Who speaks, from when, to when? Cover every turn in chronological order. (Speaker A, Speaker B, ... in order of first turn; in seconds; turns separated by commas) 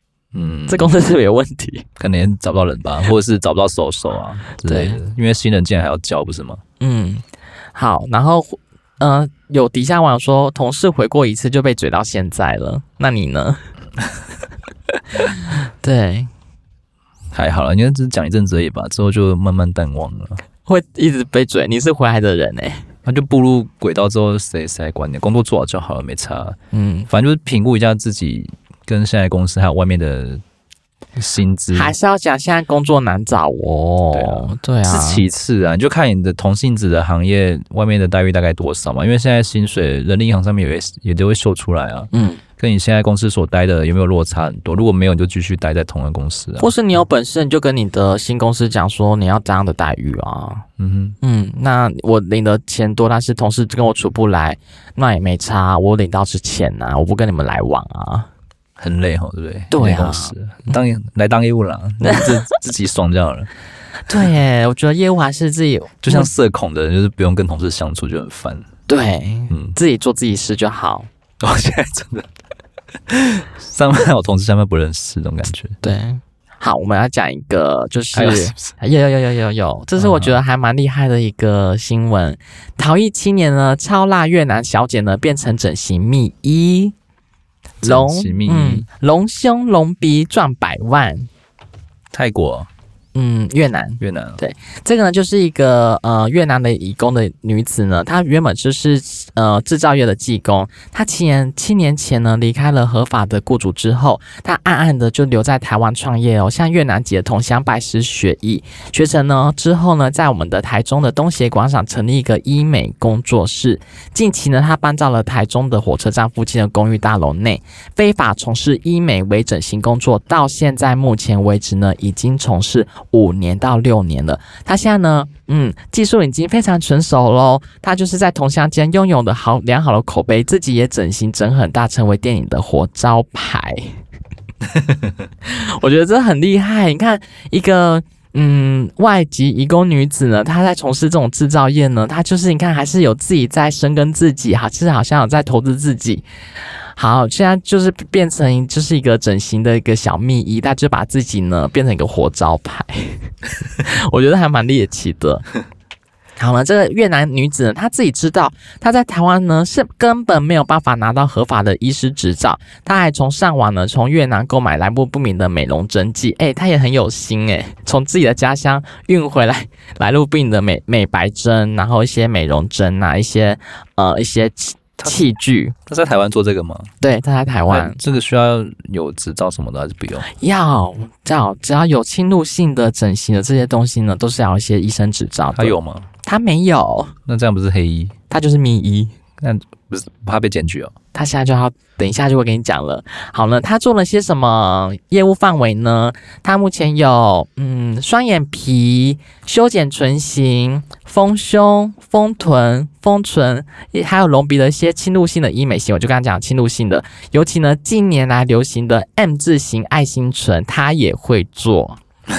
Speaker A: 0.3-0.9, Speaker B: 0.7-1.9, Speaker A: 2.0-6.6, Speaker B: 4.7-5.0, Speaker B: 6.8-7.2, Speaker B: 7.8-13.6, Speaker B: 15.3-16.3, Speaker A: 17.3-20.4, Speaker B: 20.7-22.9, Speaker A: 23.1-26.6, Speaker B: 26.7-27.1, Speaker A: 27.1-30.4, Speaker A: 31.2-31.9, Speaker B: 31.7-35.2, Speaker A: 34.1-46.7, Speaker B: 42.1-42.4, Speaker B: 46.6-50.6, Speaker A: 50.8-51.2, Speaker B: 51.2-58.3, Speaker A: 58.8-63.5, Speaker B: 59.7-60.3, Speaker B: 62.0-62.3, Speaker B: 64.1-66.3, Speaker A: 66.0-68.7, Speaker B: 68.9-71.1, Speaker A: 69.5-69.8, Speaker A: 71.4-72.3, Speaker A: 73.1-75.8, Speaker B: 75.8-87.0, Speaker A: 78.1-78.7, Speaker A: 80.0-80.3, Speaker A: 87.8-88.9, Speaker B: 87.8-91.3, Speaker A: 92.1-92.7, Speaker B: 93.2-134.0, Speaker A: 94.0-94.4, Speaker B: 135.4-146.2, Speaker B: 147.0-155.5, Speaker B: 156.4-175.8, Speaker A: 175.9-176.9, Speaker B: 177.0-178.0, Speaker A: 177.7-180.3, Speaker B: 180.3-187.2, Speaker A: 185.5-186.1, Speaker A: 187.3-188.1, Speaker B: 188.3-189.1, Speaker A: 189.4-190.9, Speaker B: 191.1-212.0